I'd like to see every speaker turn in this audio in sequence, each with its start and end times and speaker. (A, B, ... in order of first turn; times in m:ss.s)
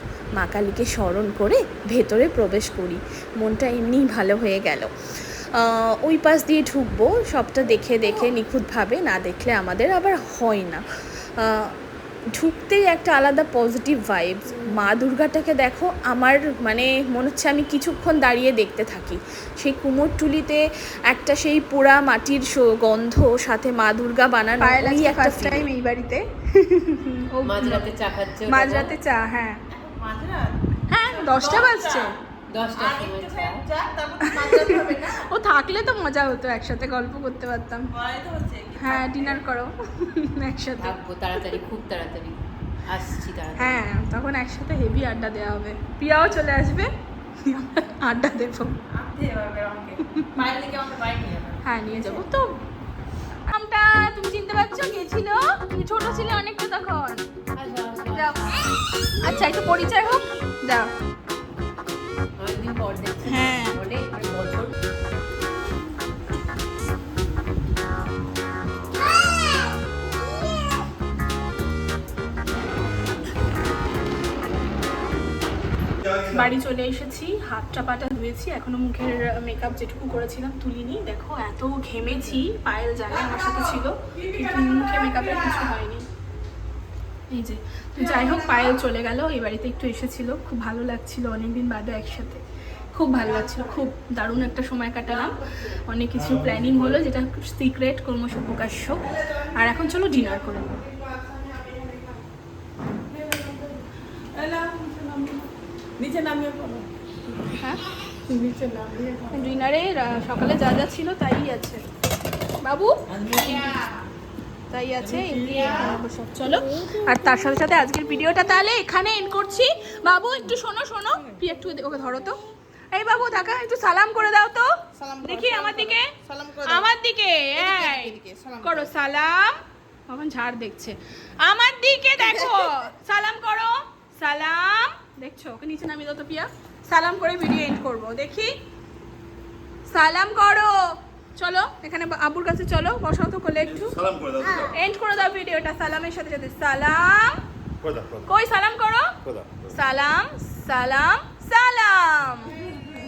0:00.4-0:10.8 A
0:11.4-0:11.7 A
0:12.4-0:25.7 A
0:24.6-0:27.9 B
0:27.4-0:28.9 C
0:28.5-0:29.6 B
0:29.8-0:30.6 D
0:30.9-0:32.2 B
0:31.1-0:32.1 D
0:32.5-0:33.7 C
0:32.8-0:35.2 D
0:34.3-0:37.9 B
0:37.9-0:39.4 D
0:38.8-0:40.9 B
0:40.8-0:43.8 C
0:43.6-0:46.9 B
0:47.4-0:48.8 B
0:48.9-0:52.1 D
0:51.6-0:52.6 B
0:53.5-0:57.2 B
0:57.5-0:58.7 C
0:58.1-0:58.4 B
0:59.2-1:00.9 B
1:02.4-1:04.7 C
1:03.3-1:03.8 B
1:16.2-1:26.1 B
1:27.3-1:40.8 B
1:36.2-1:37.0 E
1:41.4-1:42.1 D
1:43.3-1:43.6 D
1:44.4-1:45.5 D
1:46.0-1:46.8 D
1:47.6-1:47.8 B
1:48.3-1:49.2 D
1:49.3-1:51.8 B
1:52.6-1:53.7 B
1:54.7-2:02.4 B
2:02.9-2:04.7 B
2:05.0-2:06.9 D
2:05.2-2:09.5 B
2:07.6-2:08.9 D
2:10.1-2:18.5 B
2:19.9-2:20.8 B
2:21.4-2:24.0 B
2:23.7-2:24.7 E
2:24.4-2:24.7 D
2:24.7-2:27.4 B
2:27.8-2:28.3 E
2:28.3-2:29.1 B
2:29.2-2:29.7 E
2:29.7-2:32.6 B